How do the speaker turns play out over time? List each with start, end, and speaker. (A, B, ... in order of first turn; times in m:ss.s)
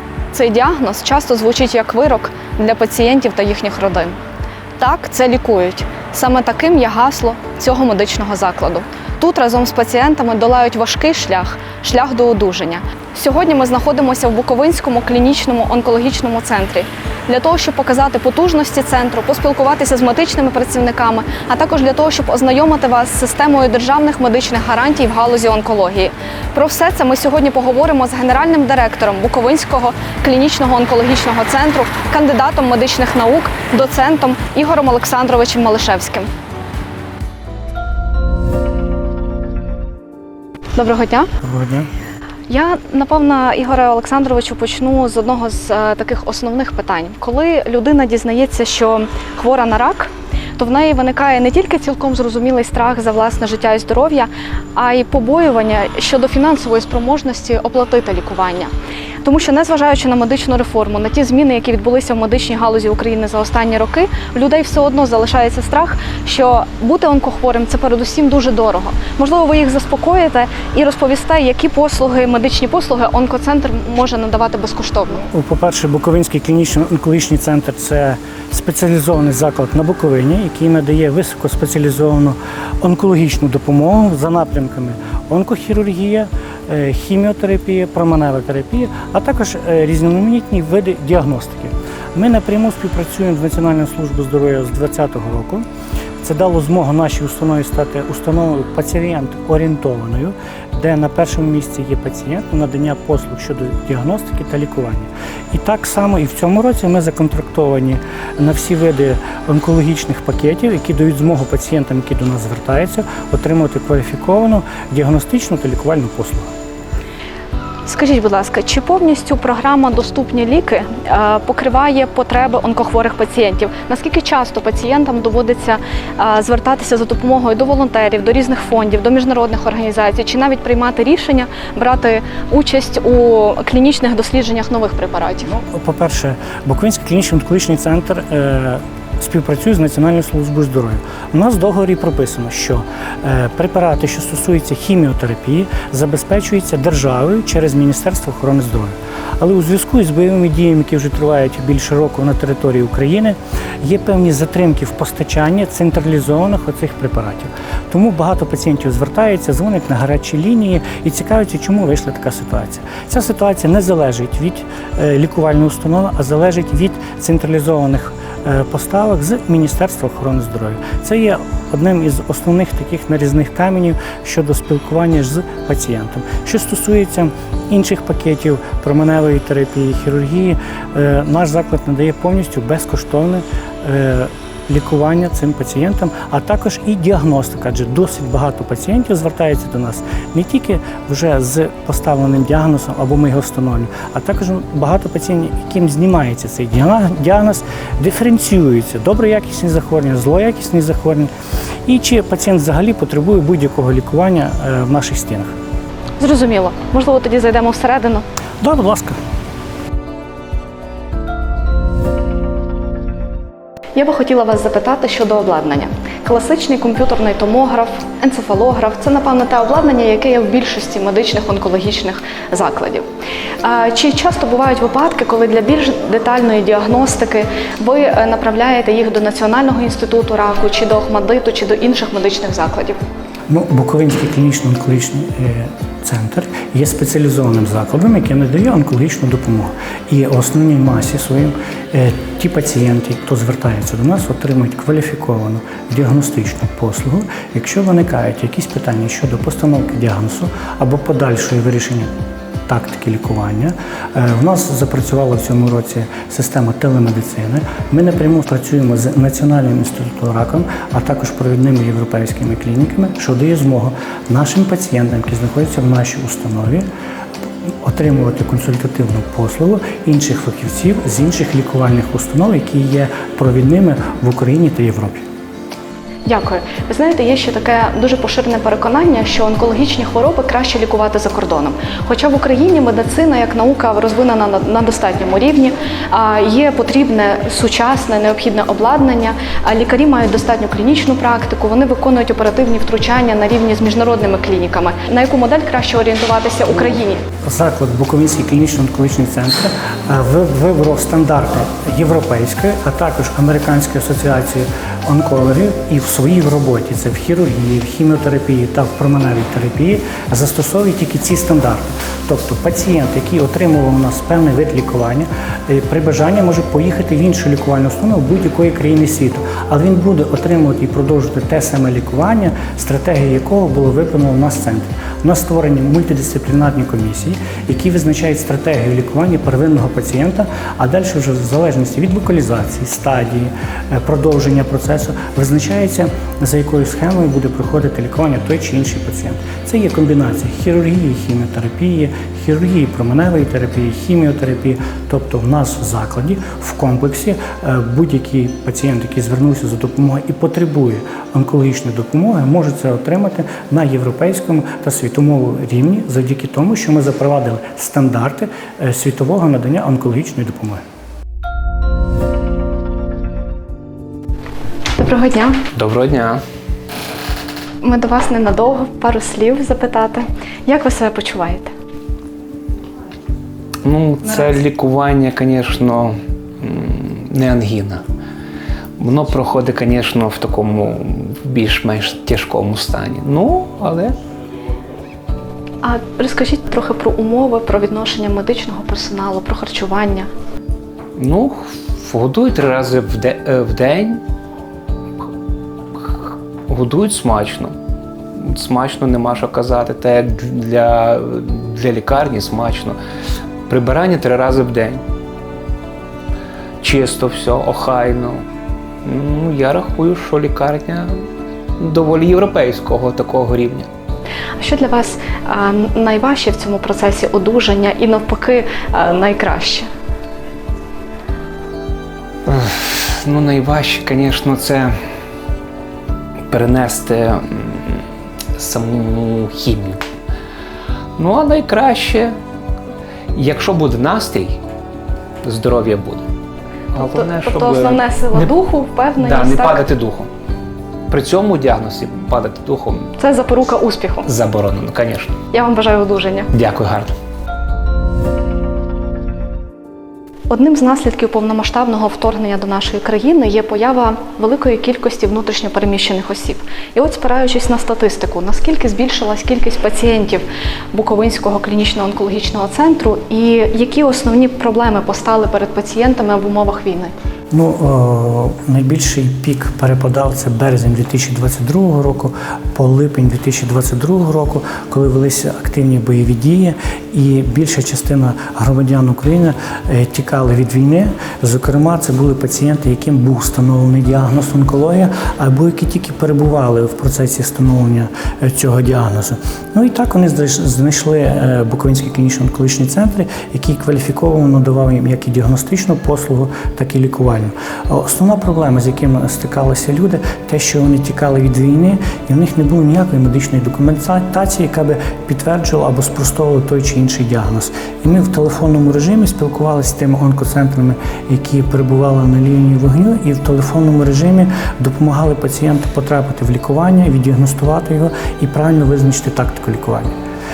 0:00.3-0:04.2 A
0:04.8-0:36.3 A
0:40.7-0:41.3 A
0:41.4-0:41.9 B
0:42.5-0:58.7 A
0:59.2-1:15.2 A
1:15.3-1:35.6 B
1:36.2-1:56.5 B
1:57.8-2:15.5 A
2:15.4-3:21.3 B
3:21.8-3:25.5 B
3:26.2-3:28.2 A
3:28.6-3:29.2 B
3:33.9-3:43.0 A
3:43.6-3:53.0 A
3:53.5-4:12.1 B
4:12.7-4:26.8 B
4:27.8-4:35.2 B
4:36.2-4:57.2 A
4:57.4-6:00.8 B
6:05.0-6:05.6 A
6:05.7-6:06.4 C
6:07.8-6:11.7 A
6:13.8-6:18.0 C
6:19.0-6:24.2 C
6:25.8-6:30.3 A
6:31.2-6:34.2 C
6:36.0-6:37.8 C
6:38.3-6:43.0 C
6:43.7-6:45.0 C
6:46.8-6:48.4 C
6:49.0-6:51.2 C
6:51.8-6:53.9 C
6:54.6-6:59.9 A
7:02.4-7:04.9 C
7:06.5-7:08.0 C
7:08.6-7:10.0 C
7:11.2-7:12.4 C
7:13.3-7:14.6 C
7:15.4-7:16.3 C
7:16.9-7:18.5 C
7:16.9-7:19.9 A
7:19.2-7:20.3 C
7:21.1-7:23.1 C
7:23.2-7:24.3 A
7:24.2-7:25.4 C
7:25.5-7:26.5 A
7:26.5-7:27.1 C
7:30.5-7:47.1 A
7:47.5-8:40.1 B